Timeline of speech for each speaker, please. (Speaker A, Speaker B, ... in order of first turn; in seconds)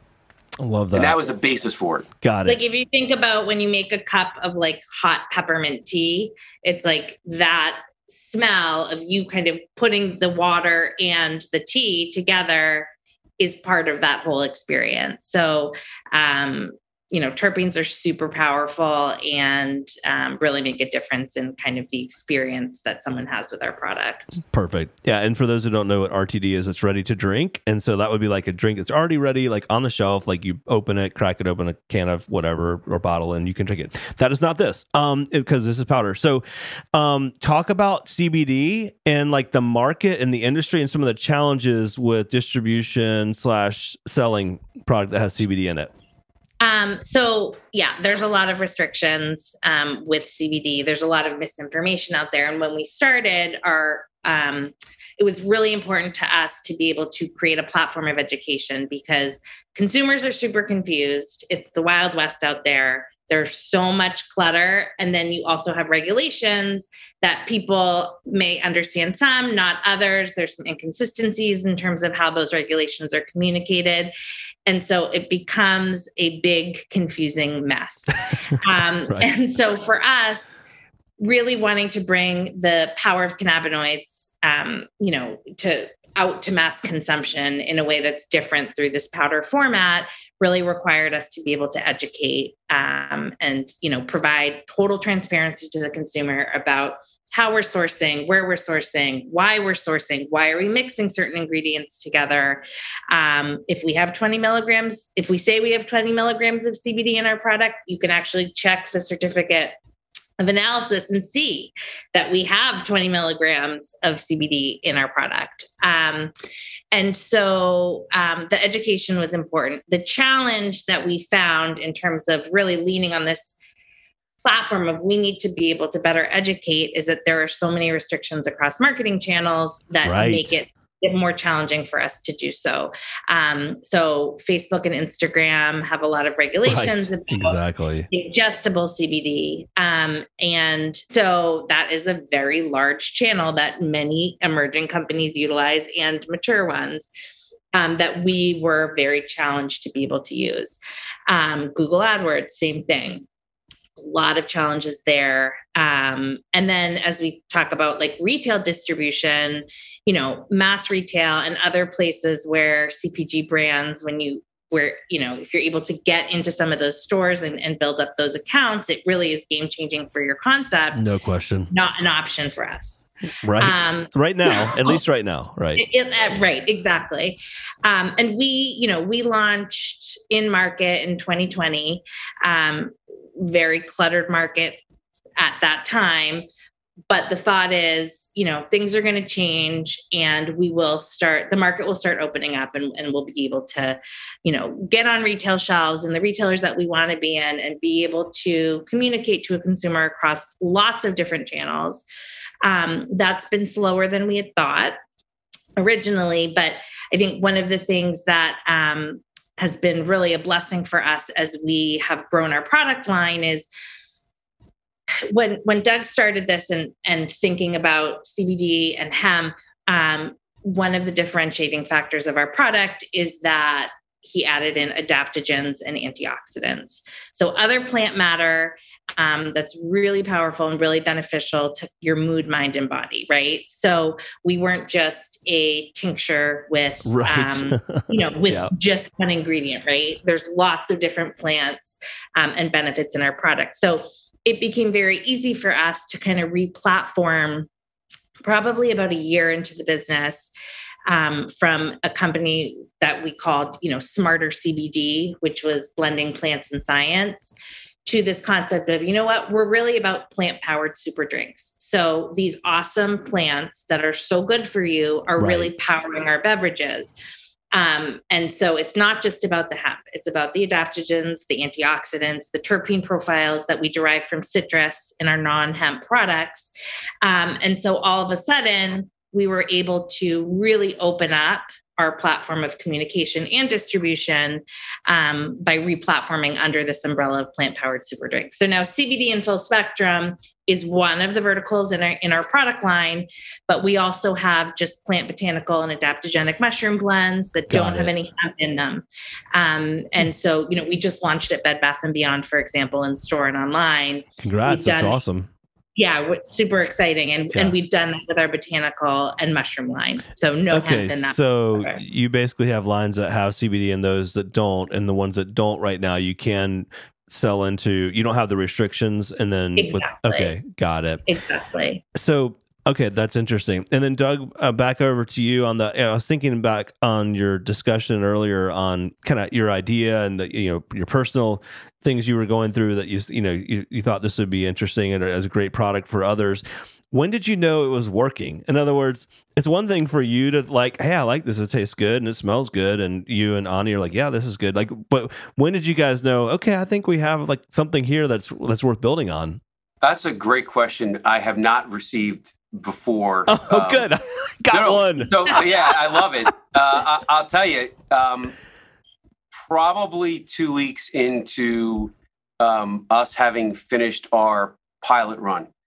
Speaker A: 0.6-1.1, 2.2-2.6, 24.5-36.4, 36.9-45.9, 130.0-130.5, 136.6-138.1, 170.9-171.7, 173.4-175.8, 237.0-238.7, 265.4-265.7, 297.7-298.1, 304.4-305.5, 310.7-321.2, 322.1-349.6, 353.5-355.7
Speaker B: 0.9-2.1, 350.0-354.1, 354.7-358.5, 359.5-365.7
Speaker C: 2.5-24.3, 46.6-74.1, 74.7-80.6, 81.2-109.8, 110.4-116.3, 116.9-123.5, 124.4-137.6, 138.1-147.1, 147.7-153.2, 154.0-171.0, 171.7-173.1, 173.6-175.0, 175.8-184.8, 185.4-186.4, 187.1-202.0, 202.6-205.0, 205.8-213.7, 215.3-247.7, 248.4-250.5, 251.1-257.5, 258.1-267.1, 267.7-276.7, 277.2-305.2, 306.0-312.0, 319.8-320.5, 321.2-322.0